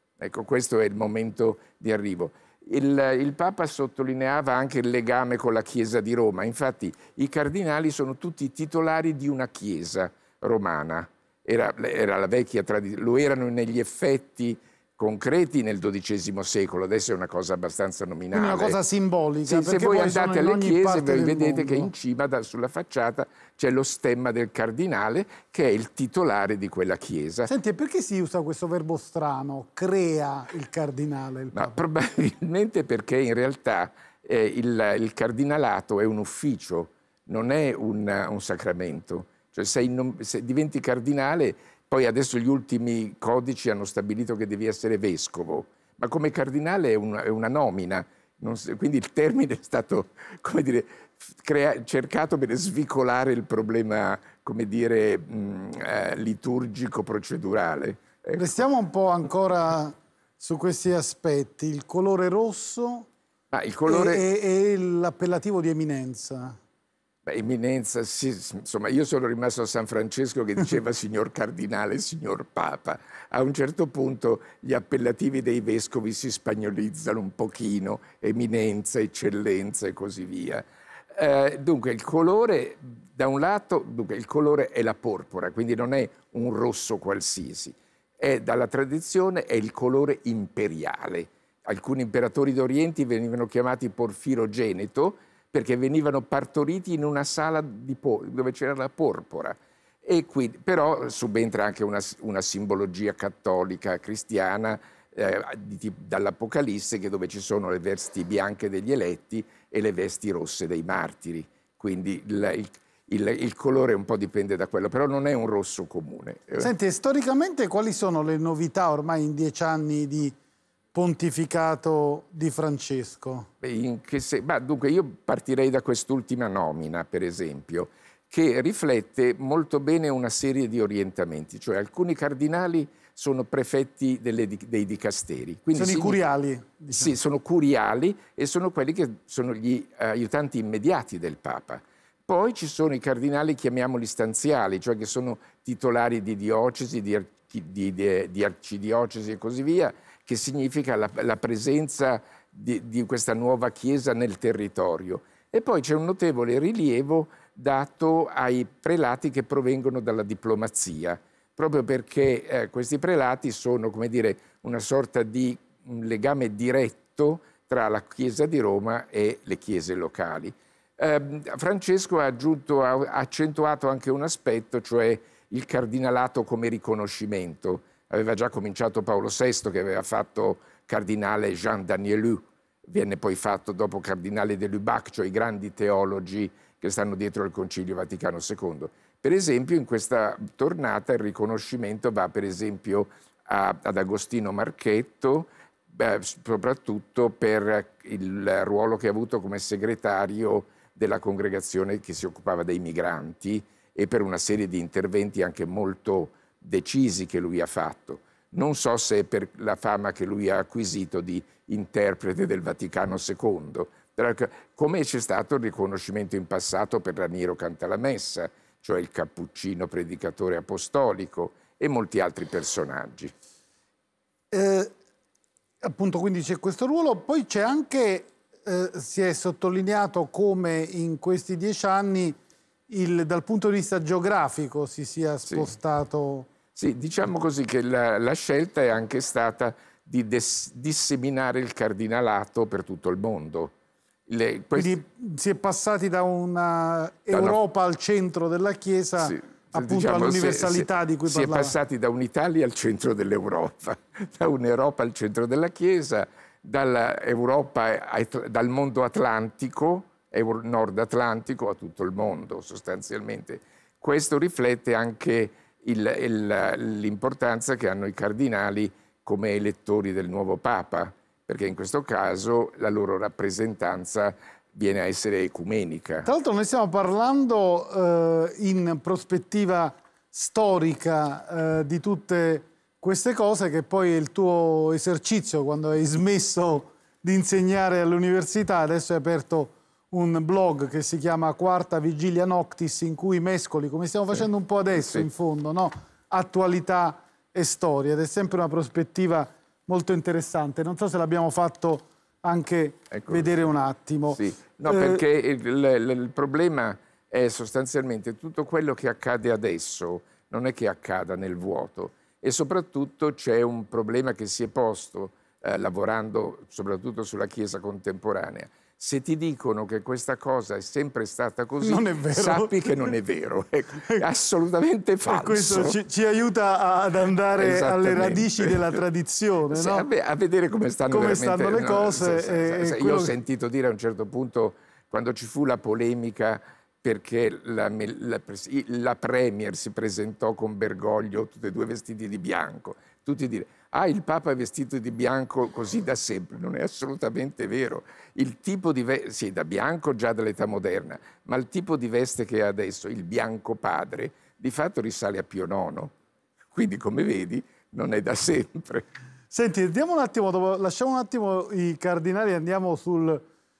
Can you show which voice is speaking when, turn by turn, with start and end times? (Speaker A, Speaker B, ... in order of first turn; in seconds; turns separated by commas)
Speaker A: 0.2-18.8, Speaker B: 18.3-21.9, Speaker A: 19.4-27.5, Speaker B: 27.5-31.8, Speaker A: 31.5-58.6, Speaker B: 58.4-63.1, Speaker A: 63.5-64.2, Speaker B: 63.9-66.6, Speaker A: 67.2-116.7, Speaker B: 116.6-120.3, Speaker B: 120.9-123.5, Speaker A: 123.6-136.2, Speaker B: 135.7-137.1, Speaker A: 136.9-223.3, Speaker B: 224.5-224.9, Speaker B: 225.8-232.4, Speaker B: 232.9-236.5, Speaker A: 236.7-243.7, Speaker A: 244.3-245.0, Speaker B: 244.7-251.7, Speaker A: 247.3-247.6, Speaker A: 249.2-276.3, Speaker B: 276.2-305.2, Speaker A: 303.1-303.5, Speaker A: 304.3-325.9, Speaker B: 321.8-322.7, Speaker B: 325.2-330.1, Speaker A: 327.5-328.8, Speaker A: 329.7-356.1, Speaker B: 331.1-333.3, Speaker A: 356.7-359.1, Speaker B: 359.5-363.4